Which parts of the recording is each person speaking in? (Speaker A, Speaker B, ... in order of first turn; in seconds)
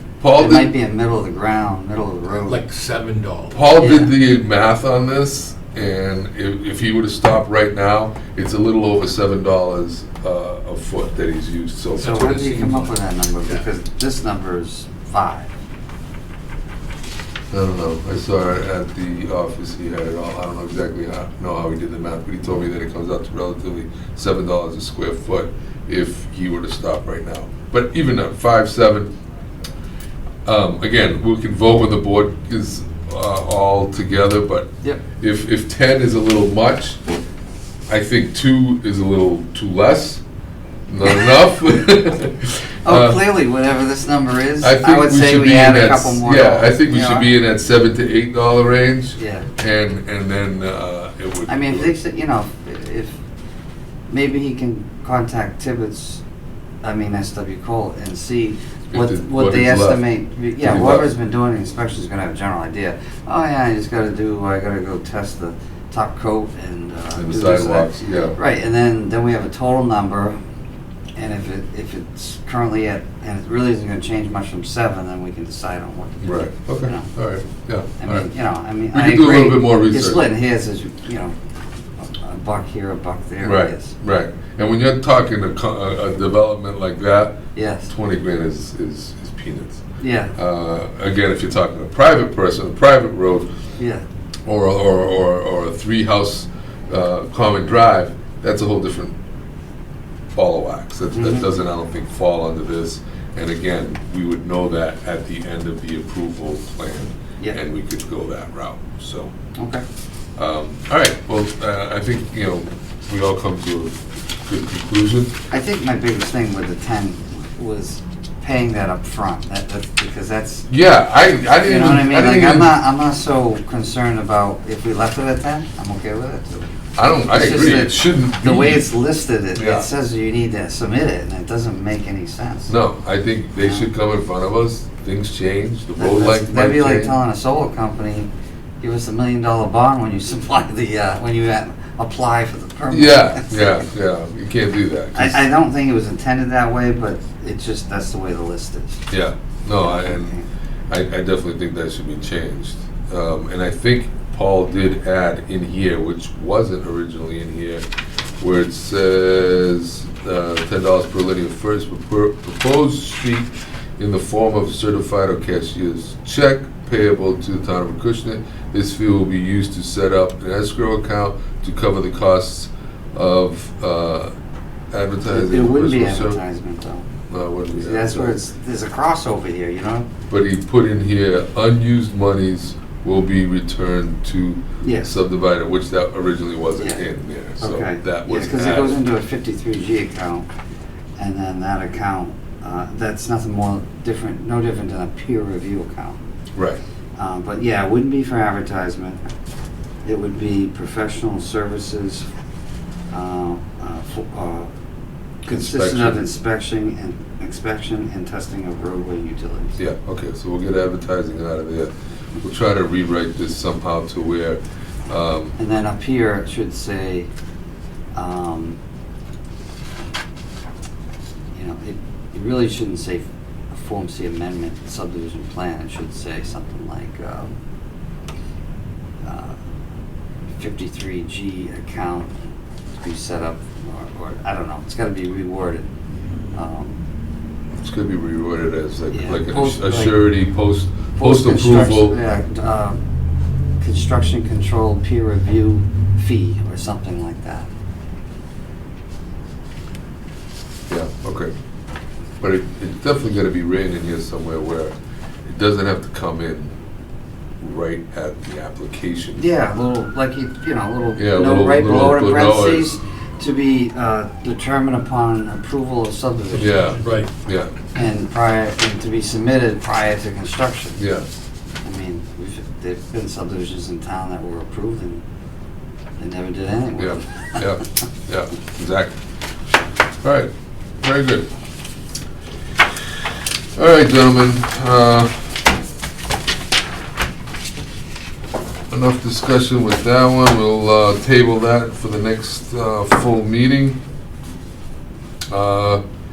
Speaker A: 0.2-0.7, 3.5-12.4, 17.5-29.1, 30.4-37.2, 37.9-40.2, 40.9-43.2, 44.6-51.9, 58.9-60.0, 60.6-61.1, 67.2-68.4, 76.2-78.3, 78.9-80.2, 83.4-89.8, 90.3-93.5, 94.5-99.1, 100.3-109.3, 110.4-115.3, 120.7-122.7, 127.0-128.9, 129.5-129.9, 132.7-137.2, 142.9-145.5, 149.1-150.3, 150.9-157.8, 158.4-174.3, 174.9-176.4, 177.3-178.4, 180.3-189.0, 205.5-206.2, 209.8-215.6, 237.8-242.2, 250.9-251.5, 252.4-254.9, 255.4-256.7, 257.6-259.4, 261.2-262.9, 266.6-267.7, 271.0-271.2, 277.0-279.2, 280.2-280.5, 281.0-281.5, 283.8-285.5, 288.9-294.0, 295.5-296.0
Speaker B: 0.3-2.6, 3.7-4.1, 12.0-15.5, 42.8-47.3, 49.2-49.5, 51.5-53.1, 54.1-56.2, 56.8-70.3, 71.2-77.1, 78.0-81.3, 82.0-84.0, 87.5-87.9, 90.0-90.3, 93.8-94.0, 101.1-101.5, 109.5-109.8, 115.5-120.7, 121.6-126.7, 127.3-132.7, 133.6-133.9, 136.0-138.3, 138.8-143.8, 145.2-149.0, 149.8-150.5, 175.2-177.1, 177.7-180.1, 184.8-185.1, 186.8-187.0, 187.6-190.5, 191.2-196.2, 197.2-199.2, 200.0-202.3, 203.1-204.7, 205.4-209.8, 215.6-217.3, 218.1-218.8, 221.5-227.5, 229.2-229.6, 230.6-232.3, 232.9-235.9, 236.5-237.0, 239.1-240.2, 241.2-243.0, 243.8-247.7, 259.4-266.9, 267.9-271.0, 271.8-275.2, 276.2-277.8
Speaker C: 2.4-3.7, 12.0-12.9, 266.9-267.3